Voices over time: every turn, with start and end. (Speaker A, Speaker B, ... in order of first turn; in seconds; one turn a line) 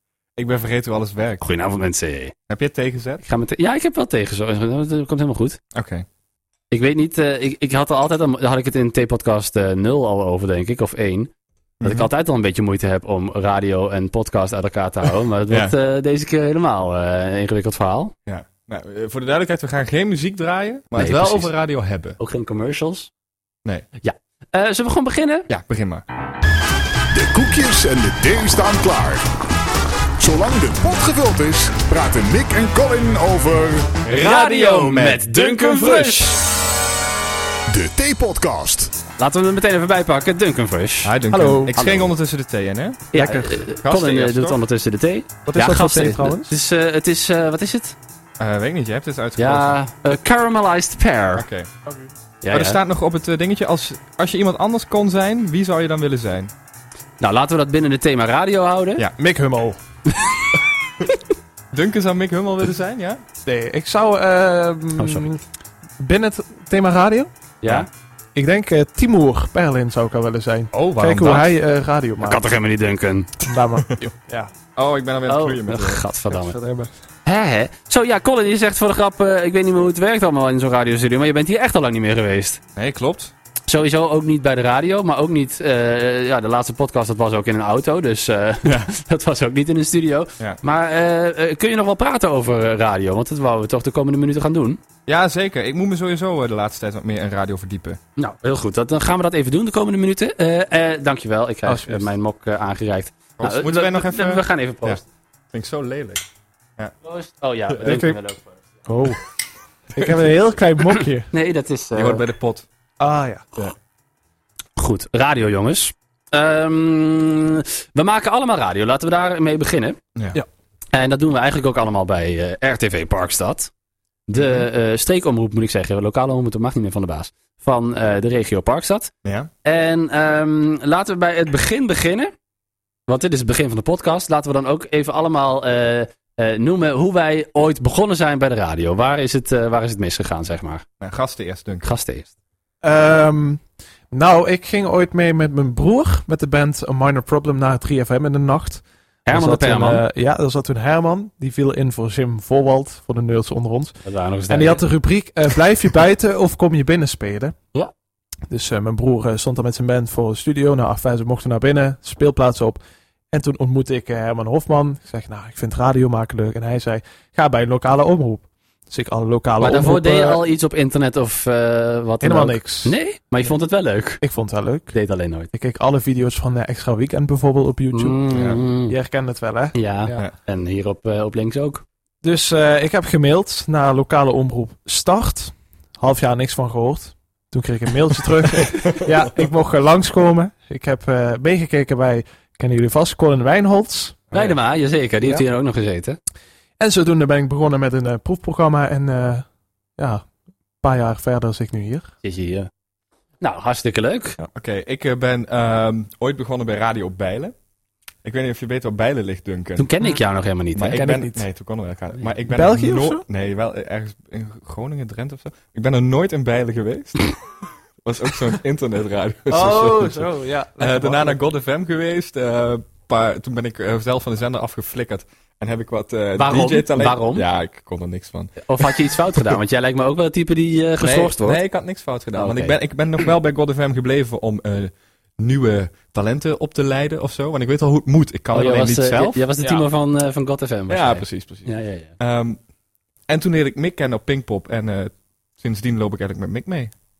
Speaker A: 0.4-1.5
Speaker B: 1.4-2.3
Speaker A: 2.5-3.2
Speaker B: 3.2-5.6
Speaker A: 5.8-6.1
Speaker B: 6.7-11.3
Speaker A: 11.8-12.1
Speaker B: 11.8-18.1
Speaker A: 18.3-22.2
Speaker B: 20.9-21.5
Speaker B: 22.2-23.1
Speaker B: 24.0-25.5
Speaker A: 25.5-26.0
Speaker C: 27.1-29.2
Speaker C: 30.2-34.0
Speaker A: 34.1-36.3
Speaker B: 34.1-36.4
Speaker C: 37.7-38.9
Speaker B: 39.2-41.1
Speaker A: 41.0-44.6
Speaker D: 41.3-41.8
Speaker B: 41.7-42.1
Speaker B: 43.1-48.0
Speaker D: 45.5-46.5
Speaker A: 48.4-49.8
Speaker B: 49.4-51.5
Speaker A: 51.4-51.7
Speaker B: 52.4-52.8
Speaker A: 52.5-56.5
Speaker B: 57.2-59.0
Speaker D: 59.2-59.8
Speaker A: 61.7-63.2
Speaker D: 63.5-65.4
Speaker B: 65.0-65.3
Speaker D: 66.0-67.3
Speaker B: 67.6-67.9
Speaker D: 68.3-72.5
Speaker A: 70.7-71.5
Speaker B: 72.2-73.4
Speaker D: 73.4-74.5
Speaker A: 74.8-76.1
Speaker B: 75.3-76.6
Speaker D: 76.3-76.9
Speaker B: 77.2-82.6
Speaker A: 82.8-83.3
Speaker B: 83.7-94.8
Speaker A: 88.7-88.9
Speaker A: 95.1-98.0
Speaker B: 98.2-105.0
Speaker D: 101.7-102.1
Speaker A: 103.4-105.0
Speaker A: 105.5-106.2
Speaker B: 107.0-108.6
Speaker D: 107.8-108.2
Speaker D: 108.9-109.2
Speaker D: 109.9-111.3
Speaker B: 111.3-112.2
Speaker A: 112.0-112.7
Speaker D: 113.0-113.5
Speaker B: 114.8-120.0
Speaker A: 120.2-120.4
Speaker B: 120.9-123.7
Speaker B: 124.3-129.1
Speaker A: 124.3-124.7
Speaker A: 129.2-129.5
Speaker B: 129.7-132.3
Speaker B: 133.1-140.8
Speaker A: 141.0-141.9
Speaker B: 141.8-142.3
Speaker D: 142.8-154.0
Speaker B: 149.3-150.0
Speaker B: 154.1-154.8
Speaker D: 154.5-157.5
Speaker D: 158.5-162.8
Speaker D: 163.3-170.4
Speaker B: 169.6-174.2
Speaker D: 172.2-173.0
Speaker D: 174.2-174.9
Speaker B: 174.9-175.5
Speaker D: 175.5-178.2
Speaker B: 177.9-179.0
Speaker A: 178.3-178.6
Speaker D: 178.8-180.2
Speaker B: 179.8-181.8
Speaker D: 182.2-194.3
Speaker B: 194.3-196.2
Speaker D: 196.8-199.4
Speaker D: 200.8-202.1
Speaker B: 202.2-202.7
Speaker B: 203.4-204.4
Speaker A: 204.5-207.6
Speaker A: 208.2-209.9
Speaker B: 209.8-211.0
Speaker A: 210.8-217.4
Speaker D: 210.9-211.5
Speaker D: 212.5-213.2
Speaker A: 218.0-229.0
Speaker D: 219.5-221.4
Speaker B: 226.4-227.5
Speaker B: 228.7-231.6
Speaker A: 231.0-239.4
Speaker B: 232.3-233.2
Speaker B: 238.5-242.2
Speaker D: 239.6-239.9
Speaker A: 240.9-242.6
Speaker A: 243.3-246.9